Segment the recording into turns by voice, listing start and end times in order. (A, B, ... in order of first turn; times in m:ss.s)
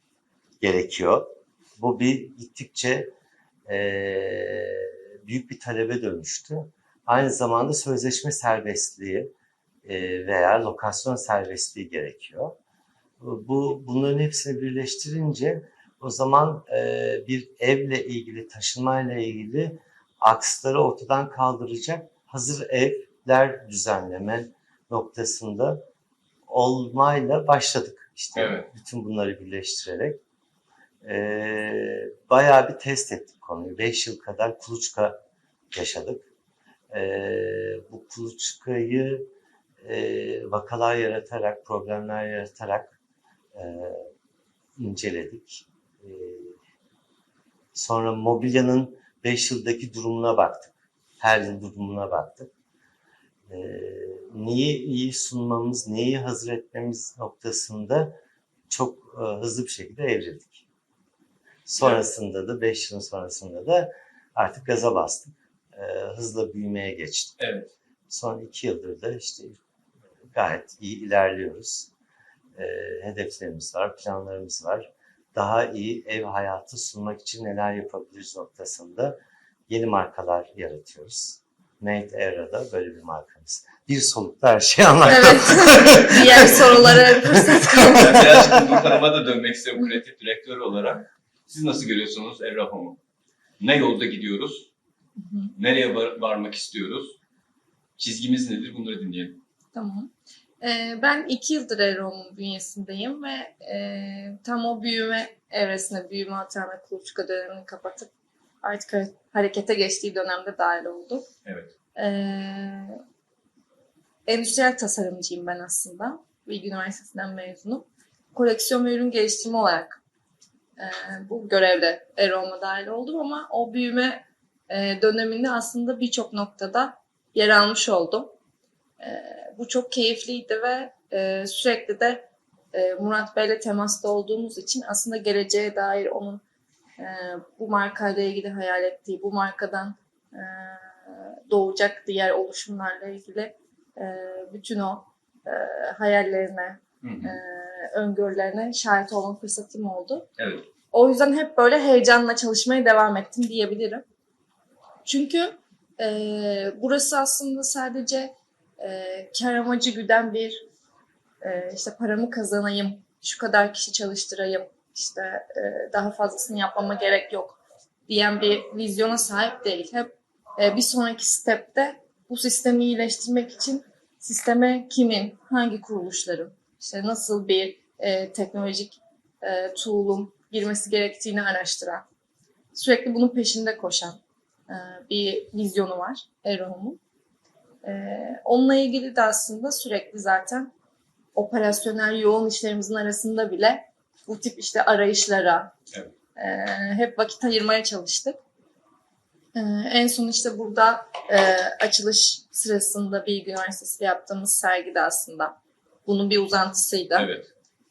0:00.6-0:03.1 A
0:03.6-0:09.3 A
0:09.8-0:12.6 A
0:13.2-0:25.8 A
0:26.5-0:30.2 A
0:28.4-0:28.6 B
0:31.0-0:35.2 A
0:35.7-0:36.2 A
0:36.9-0:39.3 A
0:39.8-0:43.0 A
0:43.5-0:44.1 A
0:44.8-0:46.5 A
0:47.7-0:52.5 A
0:53.5-0:58.2 A
0:58.7-1:00.6 A
1:01.7-1:07.3 A
1:07.4-1:07.7 B
1:08.1-1:09.6 A
1:10.3-1:11.9 A
1:12.5-1:29.0 A
1:25.1-1:28.2 C
1:25.7-1:26.9 B
1:27.9-1:33.0 B
1:33.6-1:34.7 B
1:35.2-1:35.5 C
1:35.6-1:37.2 B
1:38.0-1:39.4 B
1:39.7-1:40.1 C
1:40.6-1:48.1 C
1:48.6-1:51.2 C
1:51.4-1:51.7 B
1:52.0-1:53.0 C
1:54.2-2:00.0 C
2:00.8-2:08.3 C
2:09.0-2:16.4 C
2:17.0-2:30.3 C
2:27.0-2:27.4 B
2:30.4-2:30.6 B
2:30.9-2:34.0 C
2:35.0-2:40.6 C
2:41.4-3:02.0 C
3:02.7-3:07.0 C
3:07.8-3:10.7 C
3:11.3-3:15.7 C
3:16.4-3:18.4 C
3:19.5-3:25.5 C
3:26.0-3:27.3 C
3:27.1-3:27.5 B